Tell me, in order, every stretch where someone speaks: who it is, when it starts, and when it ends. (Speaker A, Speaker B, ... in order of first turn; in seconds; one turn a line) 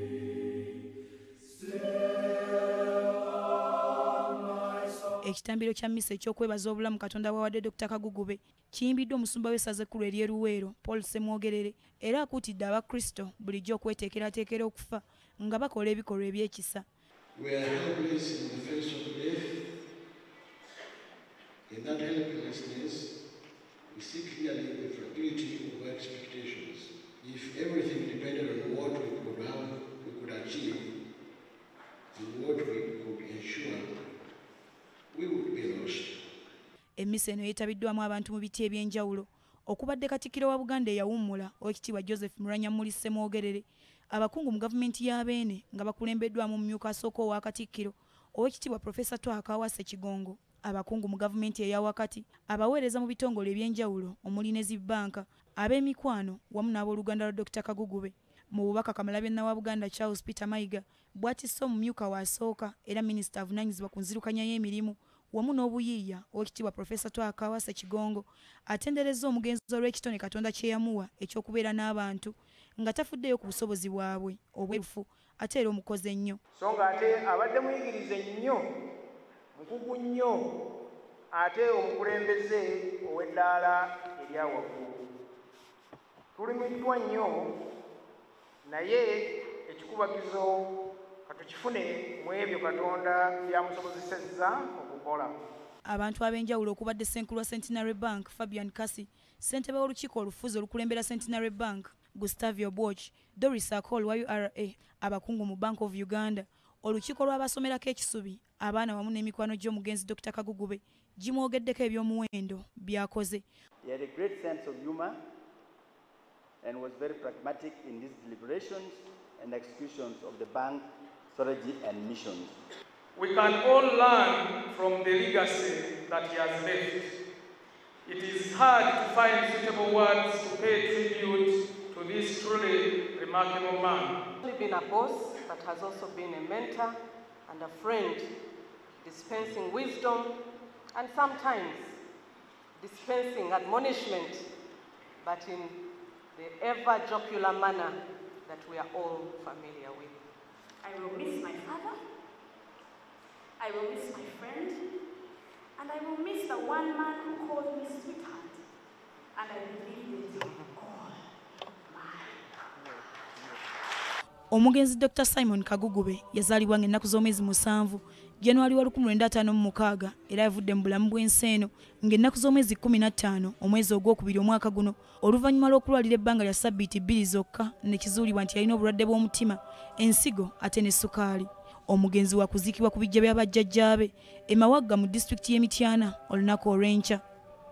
Speaker A: 5.2-16.9
Speaker B: 17.4-19.4
Speaker B: 21.7-23.1
Speaker B: 23.9-30.9
Speaker B: 32.1-33.9
Speaker B: 35.1-36.2
Speaker A: 37.0-76.4
Speaker C: 76.6-78.6
Speaker C: 79.5-80.5
Speaker C: 81.3-85.0
Speaker C: 86.3-87.5
Speaker C: 88.7-90.5
Speaker C: 91.3-95.3
Speaker A: 95.8-113.5
Speaker D: 113.8-115.2
Speaker D: 116.6-122.6
Speaker E: 123.2-127.2
Speaker E: 128.1-134.2
Speaker F: 134.4-137.0
Speaker F: 137.5-138.3
Speaker F: 139.0-140.3
Speaker F: 140.9-142.0
Speaker F: 142.8-144.4
Speaker F: 145.2-145.8
Speaker F: 146.3-150.2
Speaker G: 150.8-151.9
Speaker G: 153.6-154.8
Speaker G: 155.8-158.6
Speaker G: 159.4-161.2
Speaker G: 161.9-163.0
Speaker A: 164.5-187.2